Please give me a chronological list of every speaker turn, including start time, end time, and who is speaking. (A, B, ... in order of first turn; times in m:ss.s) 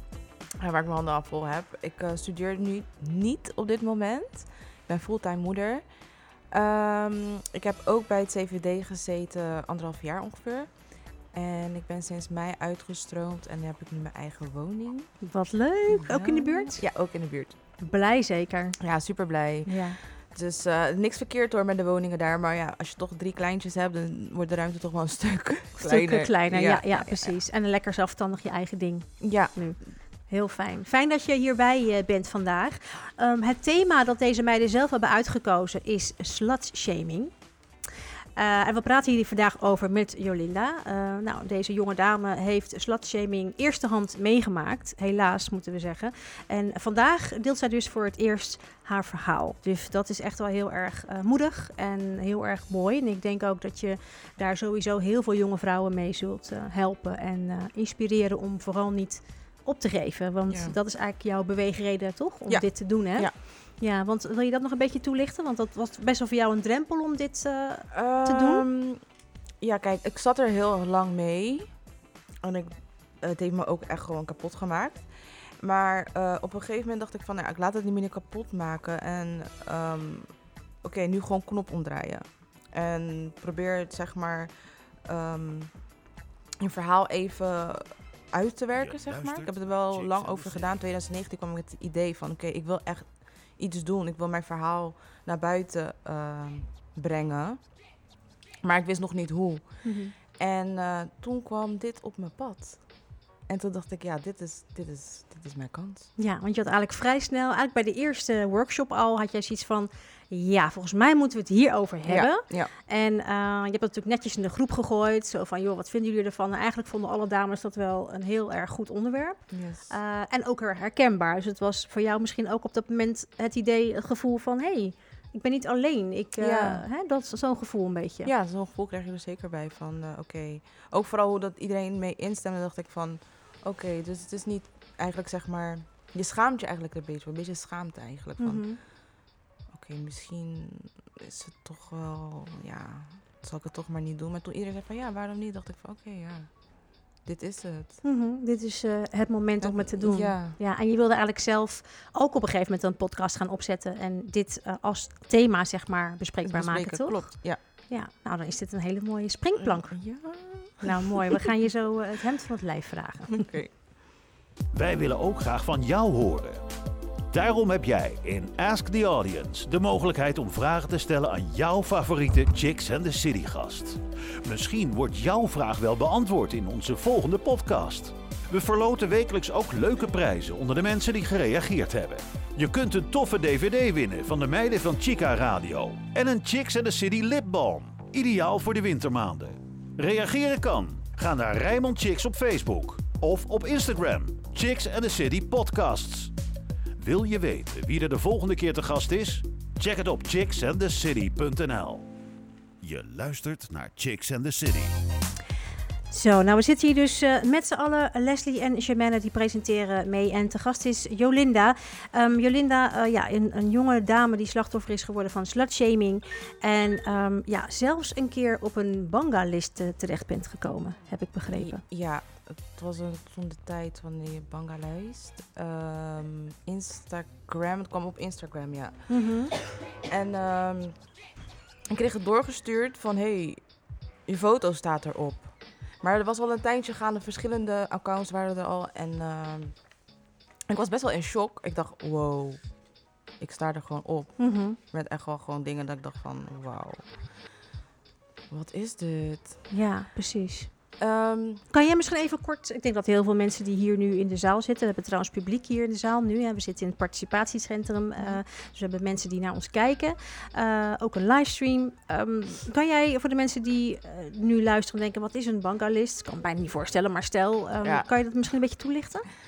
0:00.6-0:15.2 A
0:15.2-0:16.9 B
0:15.9-0:17.6 A
0:17.8-0:20.0 B
0:18.8-0:27.3 A
0:25.8-0:37.8 B
0:29.2-0:30.0 A
0:38.4-1:08.6 B
1:00.5-1:00.8 A
1:02.5-1:03.4 A
1:07.9-1:46.1 A
1:28.8-1:30.8 C
1:39.8-1:40.1 B
1:46.2-2:08.3 B
1:52.1-1:52.7 A
1:59.5-1:59.9 A
2:06.4-2:06.8 A
2:08.2-2:28.0 A
2:18.4-2:18.8 B
2:28.0-2:43.4 B
2:29.6-2:30.6 A
2:36.5-2:37.6 A
2:39.6-2:41.0 A
2:43.3-2:43.8 A
2:44.7-2:46.6 C
2:47.3-3:16.3 C
3:17.0-3:22.1 C
3:22.8-3:24.9 C
3:26.1-3:41.8 B
3:41.5-3:49.3 A
3:49.1-3:49.5 B
3:50.1-3:51.3 A
3:51.9-4:07.4 A
4:04.4-4:04.8 B
4:08.5-4:09.7 A
4:09.7-4:11.0 B
4:11.0-4:11.6 A
4:11.7-4:29.3 B
4:27.8-4:28.7 A